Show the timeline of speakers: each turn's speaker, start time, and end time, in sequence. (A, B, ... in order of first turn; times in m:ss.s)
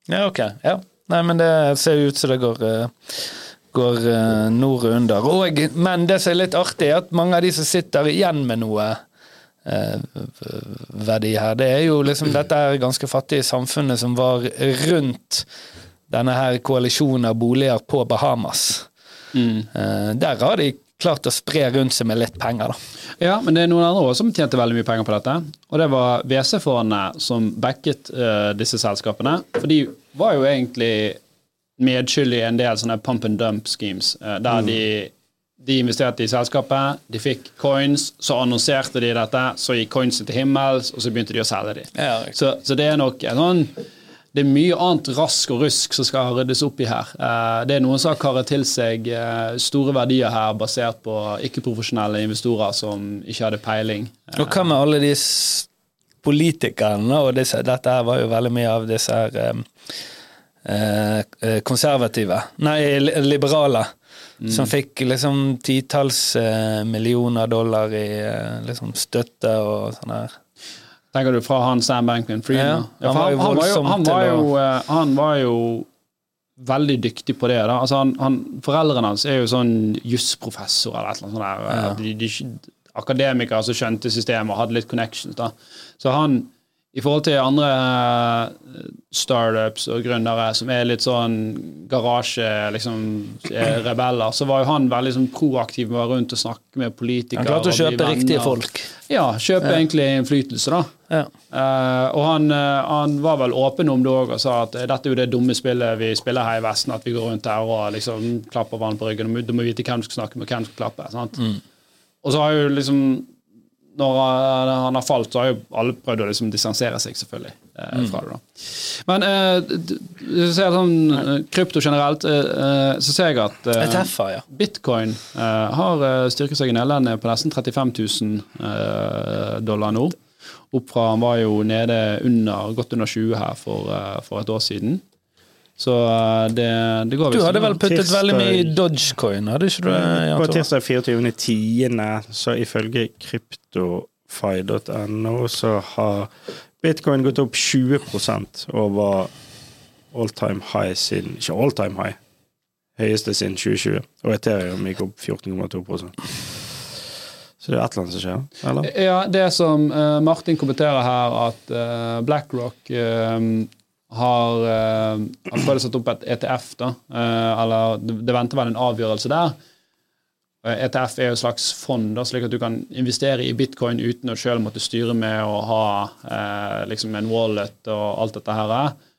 0:00.1-0:09.0 A
0:09.6-0:15.4 A
0:16.1-0:18.9 A
0:19.3-0:19.7 B
0:19.7-0:22.8 A
0:23.2-0:31.2 B
0:31.8-0:43.8 B
0:42.0-0:42.3 A
0:44.3-0:54.6 B
0:54.4-0:55.7 A
0:56.2-0:59.7 A
1:00.6-1:03.9 A
1:04.4-1:04.7 B
1:04.5-1:10.3 A
1:11.1-1:15.9 B
1:12.5-1:14.5 A
1:16.6-1:40.9 B
1:21.7-1:22.0 A
1:37.4-1:38.9 A
1:41.5-1:51.5 B
1:52.2-1:53.3 B
1:53.9-2:10.2 B
2:03.8-2:04.4 A
2:10.7-2:15.0 B
2:15.8-2:17.8 B
2:17.3-2:20.6 A
2:17.8-2:18.7 C
2:19.8-2:29.3 C
2:30.1-2:32.2 C
2:33.0-2:36.2 C
2:37.6-2:38.9 C
2:38.8-2:49.6 B
2:50.6-2:59.0 B